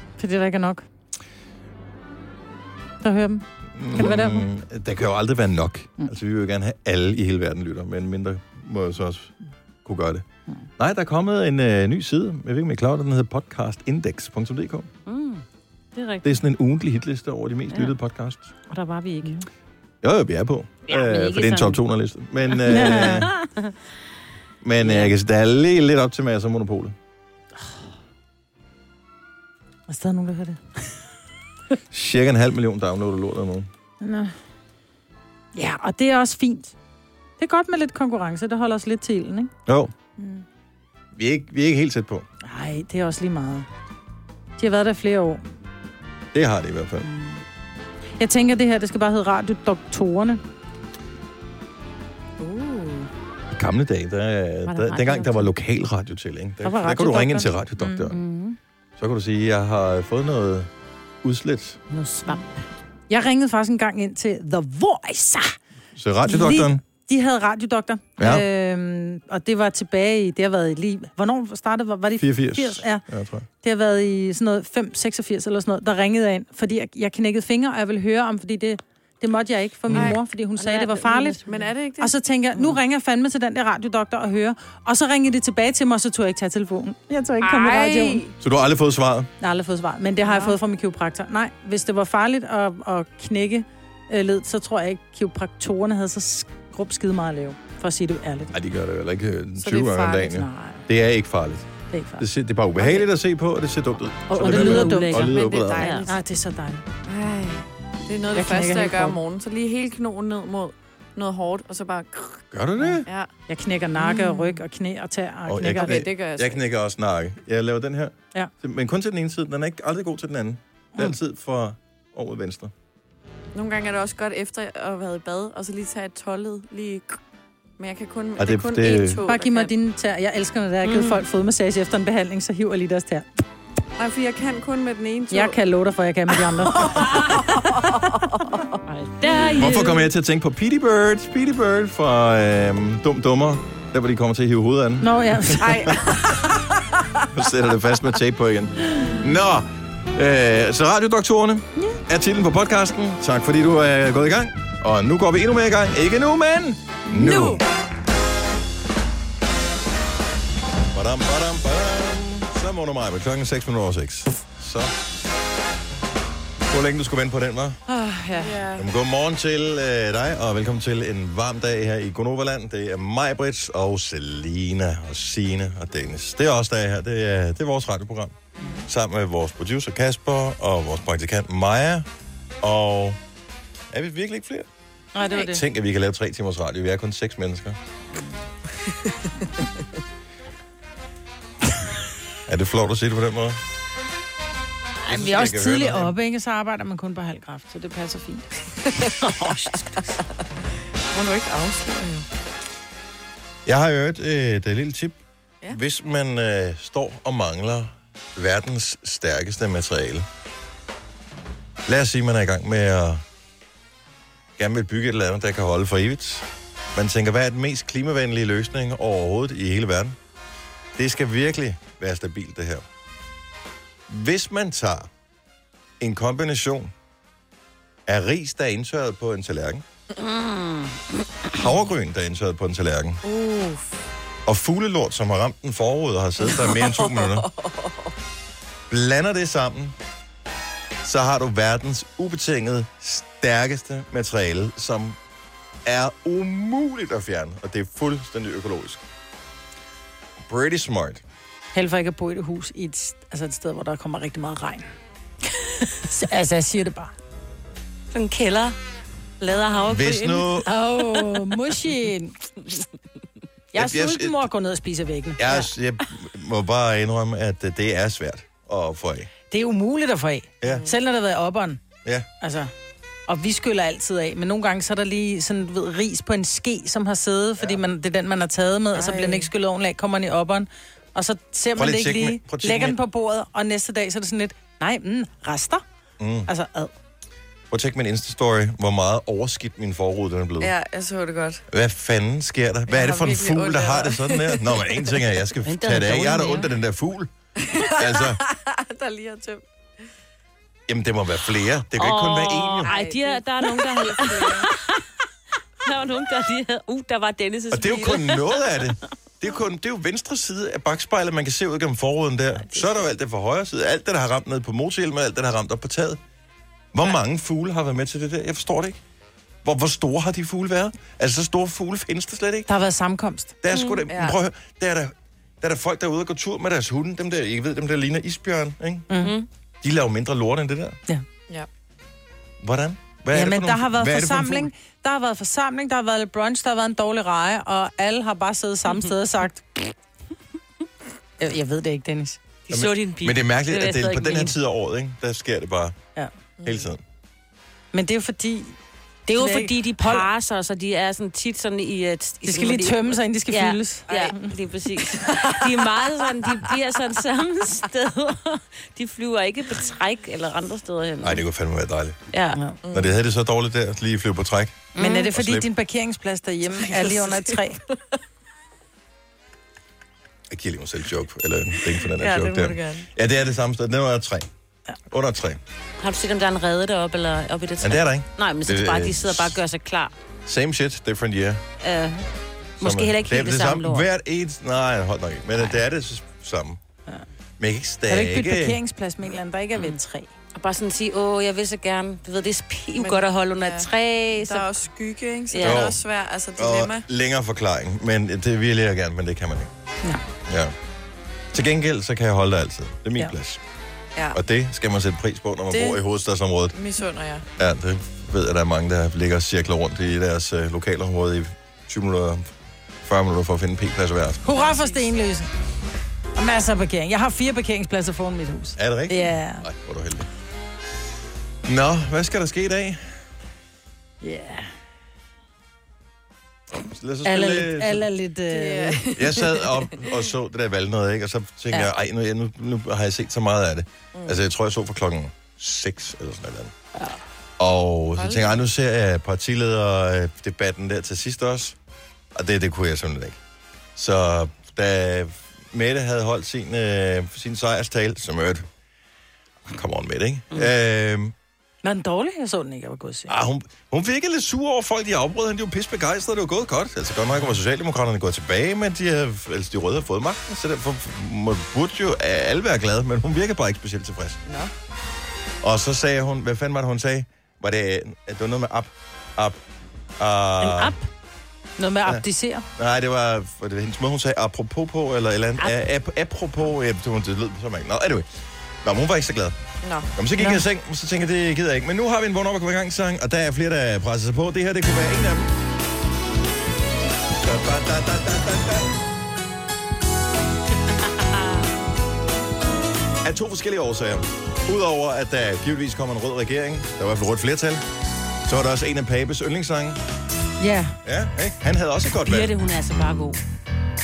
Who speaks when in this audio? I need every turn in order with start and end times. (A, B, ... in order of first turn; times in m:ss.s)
0:00.2-0:00.8 A
0:03.0-0:04.4 A
0:03.7-0:10.2 B
0:10.8-0:14.9 B
0:15.1-0:15.4 C
0:16.0-0:16.2 A
0:16.2-0:18.5 B
0:18.7-0:19.3 A
0:19.0-0:19.4 C
0:20.0-0:23.3 B
0:20.9-0:21.8 C
0:22.7-0:23.4 A
0:22.7-0:23.3 C
0:24.6-0:27.0 B
0:24.8-0:25.1 C
0:29.9-0:30.6 A
0:31.9-0:33.7 B
0:34.0-0:34.3 A
0:35.5-0:36.7 A
0:37.4-0:39.5 A
0:39.7-0:39.9 B
0:40.2-0:40.4 A
0:41.1-0:42.3 B
0:42.4-0:43.7 A
0:44.6-0:45.4 A
0:46.3-0:47.1 B
0:47.0-0:47.4 A
0:48.2-0:50.4 A
0:52.4-0:53.1 D
0:53.5-0:58.2 B
0:54.7-0:55.5 C
0:56.6-0:58.1 A
0:58.1-0:58.6 C
0:59.0-1:00.7 B
1:01.2-1:01.8 B
1:01.9-1:02.6 C
1:03.1-1:05.6 A
1:05.9-1:06.8 B
1:06.3-1:13.0 A
1:06.3-1:06.6 C
1:08.2-1:08.4 B
1:12.2-1:13.5 B
1:13.6-1:21.4 A
1:19.9-1:20.2 B
1:19.9-1:20.2 D
1:20.6-1:21.6 C
1:21.4-1:22.8 D
1:22.0-1:28.2 A
1:27.4-1:28.3 D
1:28.4-1:29.3 B
1:29.4-1:38.5 A
1:30.2-1:30.6 D
1:38.5-1:41.7 B
1:39.6-1:40.4 D
1:40.3-1:40.8 A
1:41.9-1:42.2 A
1:42.2-1:46.0 B
1:44.3-1:46.1 C
1:44.3-1:45.3 A
1:45.4-1:46.1 D
1:46.0-1:46.9 A
1:47.1-1:52.5 D
1:48.3-1:49.2 A
1:52.5-1:53.1 B
1:53.0-1:53.3 D
1:53.5-1:56.0 A
1:55.5-2:02.7 B
1:55.6-1:56.6 D
2:03.6-2:07.2 D
2:07.8-2:09.7 D
2:08.4-2:09.2 B
2:09.2-2:13.4 A
2:10.8-2:11.2 C
2:14.0-2:15.6 D
2:15.3-2:17.7 A
2:16.8-2:18.7 D
2:18.9-2:20.1 C
2:19.5-2:26.1 B
2:25.0-2:25.9 A
2:25.6-2:26.8 D
2:27.3-2:37.6 B
2:37.1-2:37.6 A
2:40.9-2:44.9 B
2:46.7-2:47.8 B
2:47.9-2:48.8 D
2:48.3-2:48.6 A
2:48.8-3:02.1 B
3:02.6-3:03.2 B
3:03.9-3:04.7 B
3:05.1-3:05.6 A
3:05.3-3:07.8 B
3:12.5-3:13.6 B
3:15.0-3:18.5 A
3:15.1-3:16.1 B
3:19.4-3:19.8 A
3:21.1-3:22.3 D
3:23.7-3:30.3 B
3:31.9-3:33.2 B
3:34.6-3:40.2 B
3:41.0-3:42.9 B
3:44.1-3:45.1 B
3:46.0-3:46.9 B
3:48.1-3:49.8 B
3:50.2-3:51.6 C
3:51.5-3:53.2 B
3:53.2-3:54.0 D
3:54.5-3:57.5 B
3:56.5-3:58.1 D
3:58.9-4:00.0 B
4:01.0-4:05.2 B
4:05.8-4:09.0 B
4:10.5-4:11.2 B
4:11.7-4:14.9 A
4:15.9-4:17.1 A
4:18.1-4:18.8 C
4:19.4-4:20.5 C
4:19.8-4:20.7 B
4:20.6-4:22.4 A
4:23.7-4:25.4 A
4:23.8-4:24.4 B
4:25.4-4:29.3 B
4:29.5-4:31.8 A
4:30.6-4:30.9 B
4:32.4-4:32.7 A
4:33.3-4:45.8 A
4:39.0-4:39.4 D
4:41.8-4:43.0 B
4:46.2-4:46.5 B
4:46.5-4:46.9 A
4:47.7-4:50.7 B
4:50.6-4:51.6 D
4:51.7-4:57.3 B
4:52.9-4:54.9 D
4:55.7-4:56.7 C
4:57.6-4:59.6 D
4:57.8-4:58.4 B
5:00.9-5:02.9 B
5:01.9-5:05.0 C
5:02.8-5:04.7 D
5:05.8-5:08.9 C
5:07.7-5:16.2 B
5:16.9-5:19.0 B
5:19.6-5:22.7 B
5:22.7-5:23.6 A
5:23.6-5:29.1 B
5:24.1-5:24.4 D
5:29.1-5:29.4 A
5:29.8-5:31.0 B
5:32.6-5:34.7 B
5:33.3-5:39.9 A
5:41.4-5:42.4 A
5:42.7-5:44.6 C
5:42.7-5:46.0 B
5:46.6-5:46.9 D
5:46.6-5:47.0 B
5:47.9-5:50.3 A
5:49.3-6:01.4 C
5:52.4-5:54.5 A
5:54.1-5:54.4 D
5:55.2-5:55.6 D
6:01.2-6:02.2 B
6:02.3-6:02.6 C
6:02.8-6:03.2 D
6:02.9-6:05.7 B
6:05.0-6:05.3 C
6:05.0-6:07.8 A
6:07.0-6:07.6 D
6:10.5-6:14.5 B
6:12.0-6:13.1 D
6:15.1-6:15.6 B
6:16.0-6:20.1 C
6:17.8-6:19.6 B
6:20.5-6:21.6 B
6:21.8-6:22.3 C
6:22.8-6:24.1 C
6:22.8-6:26.8 B
6:27.6-6:28.8 B
6:28.1-6:30.3 A
6:30.6-6:34.7 C
6:33.0-6:37.0 D
6:35.5-6:35.9 C
6:35.6-6:36.0 B
6:36.6-6:39.7 B
6:40.5-6:40.7 B
6:41.5-6:43.6 B
6:44.3-6:46.8 B
6:45.7-6:46.0 D
6:46.7-6:47.4 D
6:47.6-6:52.5 B
6:53.0-6:54.4 B
6:54.4-6:55.5 A
6:56.4-6:59.6 A
6:58.8-7:00.3 B
7:01.6-7:03.1 B
7:04.2-7:04.7 A
7:06.8-7:08.1 B
7:07.2-7:09.2 A
7:08.5-7:09.6 D
7:09.1-7:16.7 B
7:14.1-7:14.4 D
7:17.6-7:21.8 B
7:18.2-7:18.6 D
7:22.4-7:23.4 B
7:24.0-7:28.7 B
7:29.7-7:31.3 B
7:31.8-7:33.3 A
7:33.3-7:44.4 B
7:44.5-7:44.7 D
7:45.6-7:49.6 B
7:50.2-7:51.0 B
7:50.6-7:51.0 C
7:51.8-7:52.7 A
7:52.8-7:58.3 B
7:58.8-7:59.6 B
7:59.8-8:00.1 D
8:00.2-8:05.5 B
8:00.4-8:00.6 A
8:07.4-8:09.0 B
8:13.2-8:17.8 B
8:18.5-8:20.0 B
8:20.6-8:21.0 A
8:21.0-8:22.5 B
8:22.1-8:23.4 C